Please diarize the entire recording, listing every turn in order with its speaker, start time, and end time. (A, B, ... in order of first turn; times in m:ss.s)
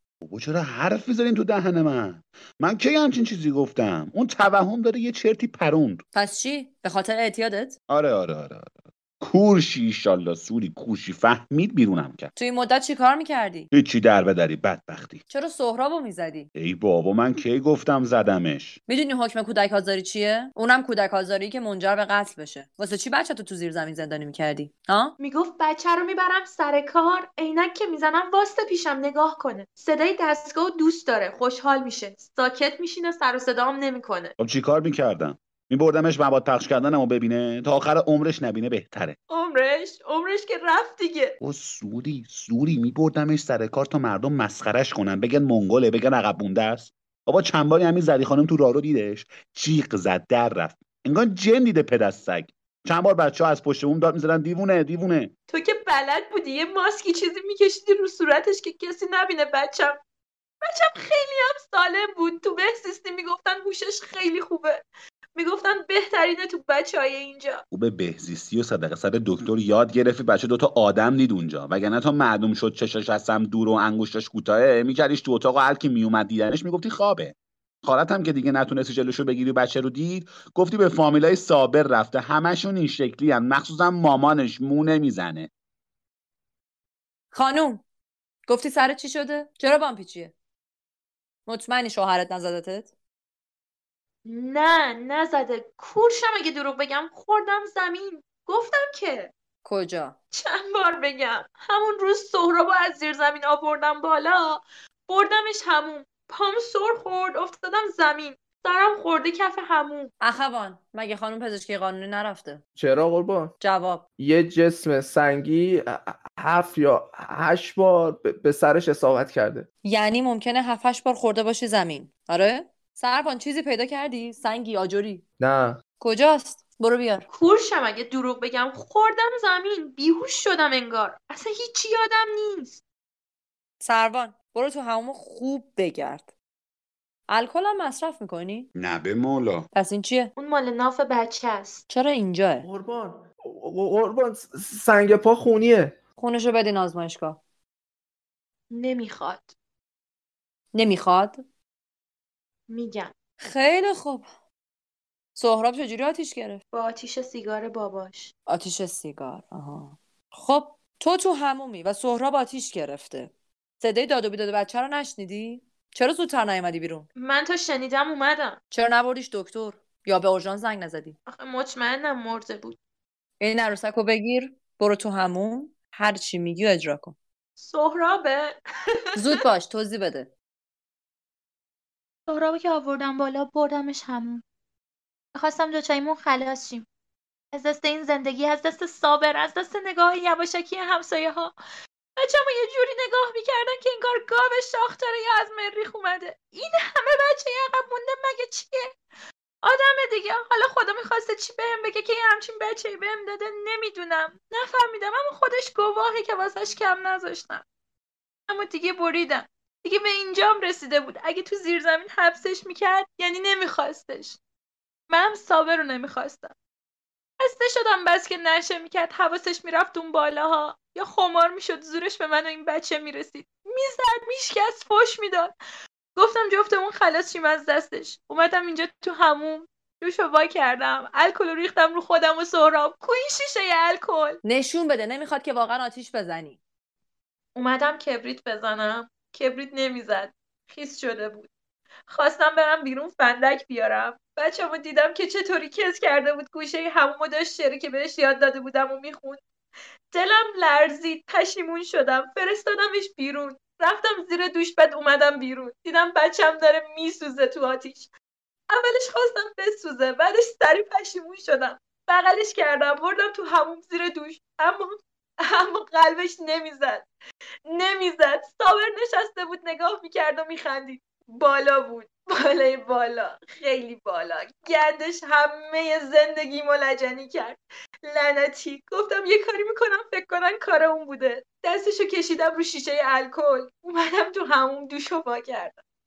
0:00.2-0:06.0 A
0:06.1-0:07.8 B
0:07.9-0:12.3 A
0:12.4-0:13.7 B
0:13.7-0:15.2 A
0:15.3-0:16.5 B
0:16.5-0:18.8 A
0:18.9-0:25.1 B
0:25.2-0:34.3 C
0:34.4-0:39.2 A
0:39.3-0:41.3 C
0:41.4-0:55.3 A
0:55.5-1:00.0 C
1:00.6-1:04.8 C
1:05.3-1:07.6 C
1:07.7-1:25.5 A
1:27.3-1:27.8 B
1:28.4-1:30.3 B
1:31.4-1:32.9 B
1:34.2-1:39.3 C
1:39.6-1:40.2 B
1:40.3-1:50.1 C
1:50.2-1:52.6 B
1:52.8-1:53.5 D
1:53.6-1:54.0 B
1:54.2-1:59.6 D
1:59.8-2:05.2 B
2:05.4-2:05.8 D
2:06.0-2:07.3 B
2:07.3-2:12.8 C
2:13.8-2:16.3 B
2:17.3-2:18.7 B
2:18.8-2:19.7 A
2:19.7-2:20.3 B
2:20.4-2:21.8 C
2:21.9-2:22.7 B
2:22.6-2:25.9 D
2:26.2-2:27.4 B
2:28.7-2:29.5 C
2:30.7-2:31.4 B
2:32.7-2:33.1 C
2:33.4-2:34.3 B
2:35.3-2:36.6 B
2:36.7-2:38.3 C
2:38.5-2:47.1 B
2:47.2-2:48.6 C
2:48.7-2:51.2 B
2:51.3-2:52.8 C
2:53.4-2:57.1 B
2:57.6-2:58.6 C
2:59.2-3:00.3 B
3:02.3-3:04.4 C
3:05.3-3:06.8 C
3:07.5-3:11.5 C
3:12.2-3:19.0 C
3:19.6-3:27.6 C
3:28.5-3:34.4 C
3:35.1-3:36.5 C
3:37.4-3:45.5 C
3:46.1-3:54.4 C
3:54.4-3:56.6 B
3:57.5-4:01.5 C
4:02.1-4:09.4 C
4:10.1-4:18.1 C
4:18.7-4:27.1 C
4:27.7-4:45.8 C